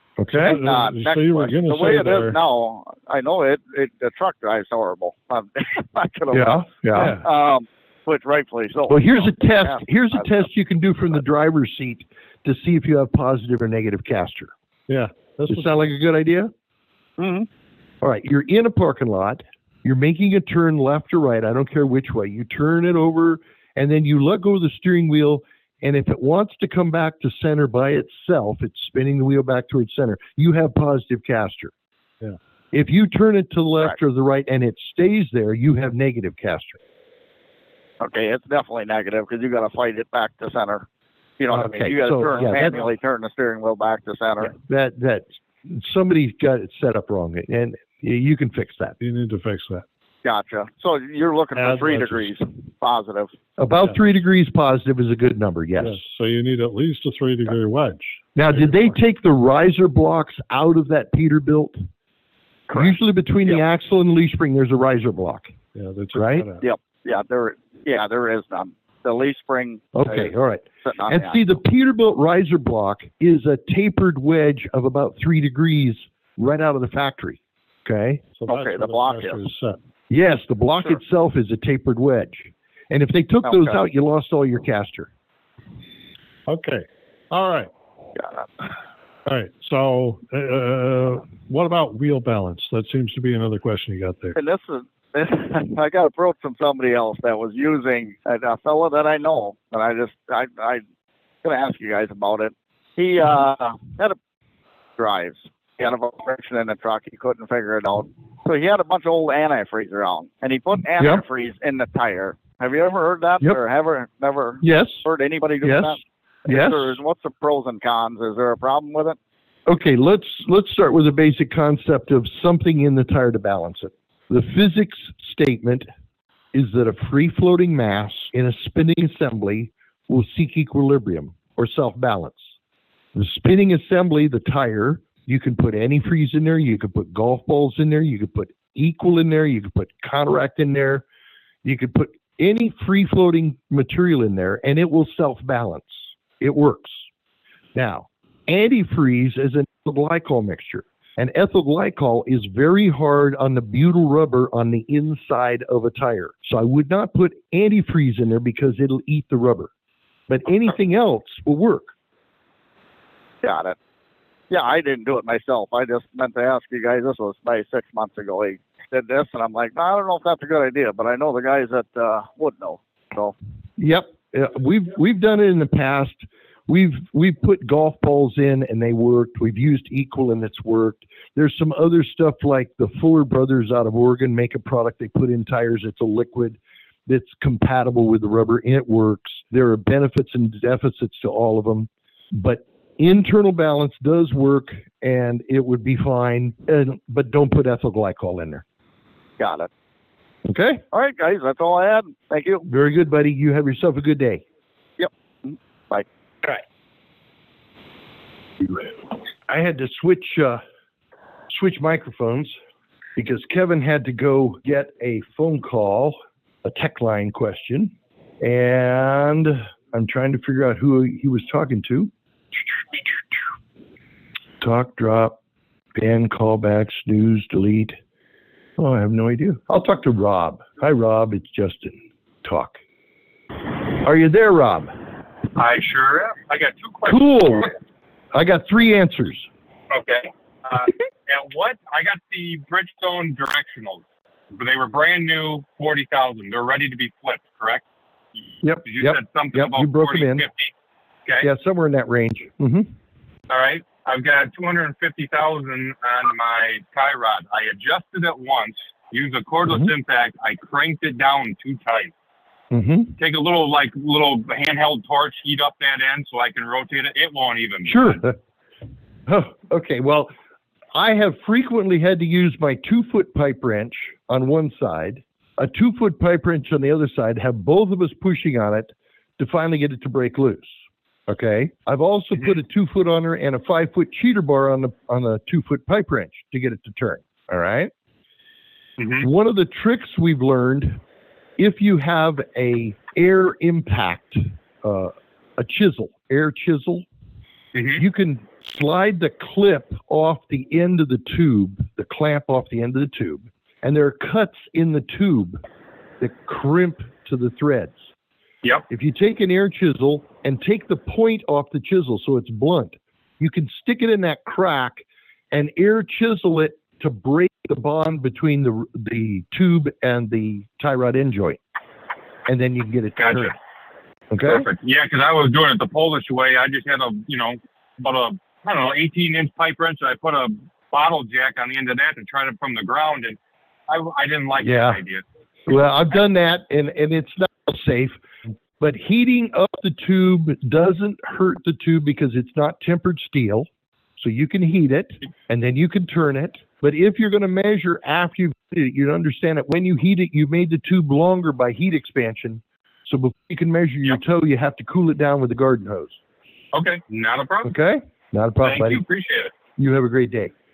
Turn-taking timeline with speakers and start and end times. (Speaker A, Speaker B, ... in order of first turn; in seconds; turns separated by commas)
Speaker A: 0.2-0.6, Speaker B: 0.3-2.4, Speaker C: 0.4-10.4, Speaker A: 6.3-7.2, Speaker A: 8.9-14.5, Speaker B: 14.9-15.7, Speaker A: 15.5-16.5, Speaker C: 17.2-17.5, Speaker A: 18.0-31.7, Speaker A: 32.7-36.8, Speaker C: 38.0-40.9, Speaker C: 41.4-44.6, Speaker A: 41.5-42.9, Speaker A: 44.5-49.0, Speaker B: 49.0-49.9, Speaker C: 50.2-53.3, Speaker B: 51.6-52.3, Speaker A: 53.6-56.0, Speaker B: 55.8-59.0, Speaker A: 58.4-61.8, Speaker C: 62.7-63.0, Speaker A: 62.7-65.5, Speaker B: 65.8-66.7, Speaker A: 66.1-66.5, Speaker C: 66.6-70.3, Speaker A: 70.0-78.2, Speaker C: 70.8-71.5, Speaker B: 78.4-79.8, Speaker C: 78.5-79.5, Speaker A: 80.1-85.1, Speaker C: 83.5-83.8, Speaker B: 86.5-87.7, Speaker C: 88.2-88.5, Speaker B: 89.3-94.4, Speaker C: 94.3-100.8, Speaker C: 101.4-104.2, Speaker C: 105.0-119.2, Speaker A: 111.0-111.2, Speaker A: 114.6-115.0, Speaker A: 115.6-116.0, Speaker A: 116.5-117.0, Speaker A: 119.7-125.9, Speaker A: 126.5-132.5, Speaker A: 133.2-141.1, Speaker A: 141.6-147.0, Speaker A: 147.8-159.7, Speaker A: 160.3-161.9, Speaker C: 163.4-163.8, Speaker C: 164.5-173.3, Speaker A: 173.8-198.6, Speaker C: 199.4-199.7, Speaker A: 200.4-200.8, Speaker C: 200.9-202.7, Speaker A: 202.7-204.4, Speaker C: 205.0-206.6, Speaker A: 208.6-208.9, Speaker A: 209.5-210.6, Speaker A: 211.5-212.5, Speaker A: 213.2-222.1, Speaker A: 224.6-225.4, Speaker A: 225.9-228.0, Speaker A: 228.8-232.8, Speaker A: 233.9-234.9, Speaker D: 235.6-237.2, Speaker A: 237.1-237.7, Speaker A: 238.3-239.5, Speaker D: 239.9-244.0, Speaker D: 244.5-247.8, Speaker A: 248.6-250.5, Speaker D: 248.8-250.7, Speaker A: 251.4-252.9, Speaker D: 253.5-262.1, Speaker A: 262.7-263.1, Speaker D: 263.2-268.2, Speaker A: 267.9-268.4, Speaker A: 269.3-270.3, Speaker A: 270.9-280.8, Speaker A: 281.3-287.9, Speaker D: 289.0-289.3, Speaker A: 289.2-291.0, Speaker A: 291.6-297.1, Speaker D: 297.7-298.0, Speaker A: 298.0-305.6, Speaker A: 306.2-308.0, Speaker A: 308.9-321.6, Speaker A: 322.5-323.6, Speaker D: 323.2-323.5, Speaker A: 324.3-324.7, Speaker D: 324.4-335.2, Speaker A: 334.6-335.0, Speaker A: 335.7-338.2, Speaker A: 338.8-356.2, Speaker D: 356.7-357.7, Speaker A: 357.6-359.0, Speaker D: 358.6-359.5, Speaker A: 359.8-360.5